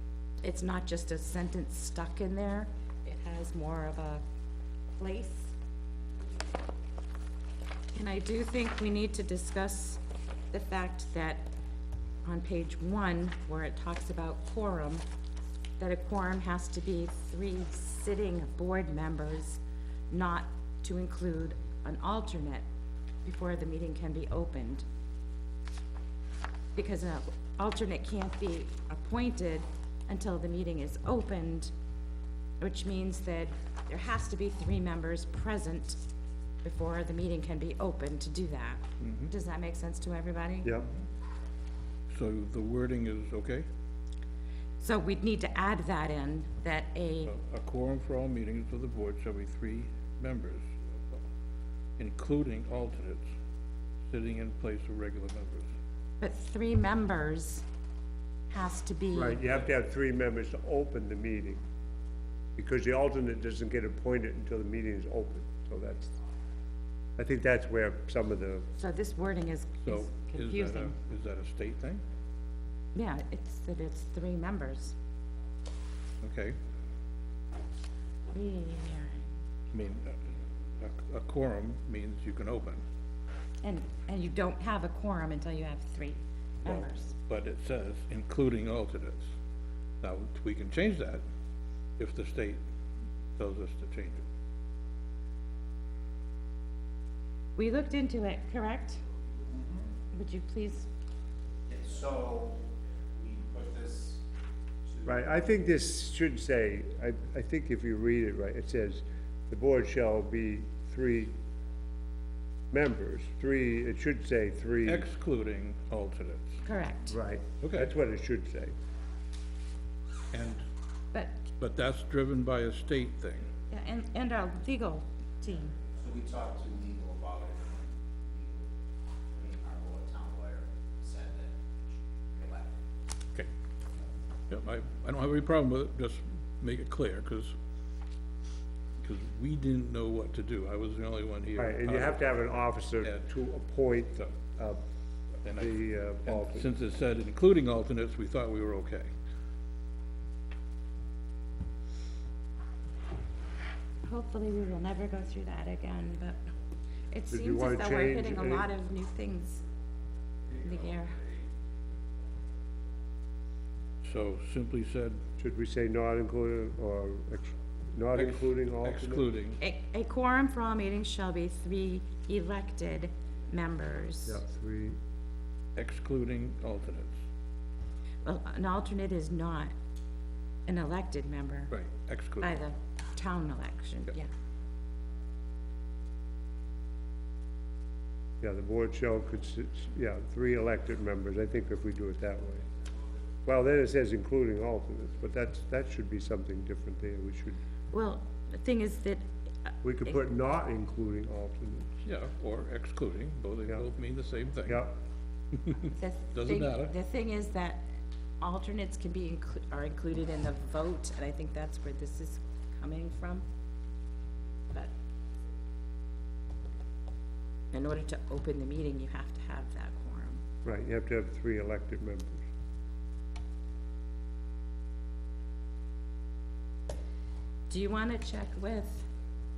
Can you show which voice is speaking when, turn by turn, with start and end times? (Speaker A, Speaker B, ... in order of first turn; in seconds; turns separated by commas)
Speaker A: 0.4-4.2, Speaker A: 5.0-5.5, Speaker A: 7.9-11.5, Speaker A: 12.2-15.0, Speaker A: 15.8-22.6, Speaker A: 23.2-24.8, Speaker A: 26.7-31.7, Speaker A: 32.6-36.0, Speaker A: 36.6-40.7, Speaker B: 39.0-39.3, Speaker B: 42.1-43.6, Speaker A: 44.8-47.3, Speaker B: 47.2-51.2, Speaker B: 52.0-53.3, Speaker B: 54.0-55.7, Speaker A: 56.2-57.6, Speaker A: 58.5-59.6, Speaker C: 59.1-61.6, Speaker C: 62.5-66.1, Speaker C: 67.2-68.7, Speaker A: 68.8-71.0, Speaker B: 69.8-72.0, Speaker A: 72.9-75.0, Speaker B: 76.2-76.6, Speaker A: 78.3-79.3, Speaker B: 79.7-82.8, Speaker A: 83.6-87.1, Speaker B: 86.6-89.3, Speaker B: 90.0-91.2, Speaker B: 92.0-92.6, Speaker B: 93.4-94.2, Speaker A: 97.6-99.0, Speaker D: 99.5-99.9, Speaker A: 100.1-100.9, Speaker D: 101.7-104.2, Speaker D: 104.9-105.2, Speaker C: 105.0-111.3, Speaker C: 112.7-115.1, Speaker B: 114.8-116.6, Speaker A: 116.6-117.2, Speaker C: 117.1-118.7, Speaker B: 117.6-117.9, Speaker B: 120.3-120.6, Speaker A: 121.1-121.4, Speaker B: 121.6-123.5, Speaker A: 123.7-125.8, Speaker D: 126.0-128.7, Speaker D: 129.3-132.7, Speaker B: 134.5-137.5, Speaker B: 139.0-142.3, Speaker C: 141.6-144.8, Speaker B: 145.4-149.1, Speaker C: 145.5-146.7, Speaker A: 154.1-156.4, Speaker A: 157.1-159.6, Speaker C: 157.3-158.7, Speaker A: 160.5-161.2, Speaker B: 164.0-165.2, Speaker C: 165.4-169.3, Speaker B: 168.1-169.6, Speaker A: 169.6-174.4, Speaker C: 174.2-175.0, Speaker B: 175.8-177.2, Speaker A: 178.2-179.7, Speaker A: 180.7-181.7, Speaker B: 181.7-182.6, Speaker A: 182.4-184.3, Speaker C: 188.4-192.6, Speaker C: 193.4-197.6, Speaker A: 197.9-200.1, Speaker C: 199.8-201.9, Speaker B: 202.0-204.9, Speaker C: 204.7-204.9, Speaker B: 205.5-206.9, Speaker A: 205.9-207.8, Speaker A: 208.4-213.4, Speaker A: 217.7-220.4, Speaker C: 220.6-222.4, Speaker A: 227.7-229.1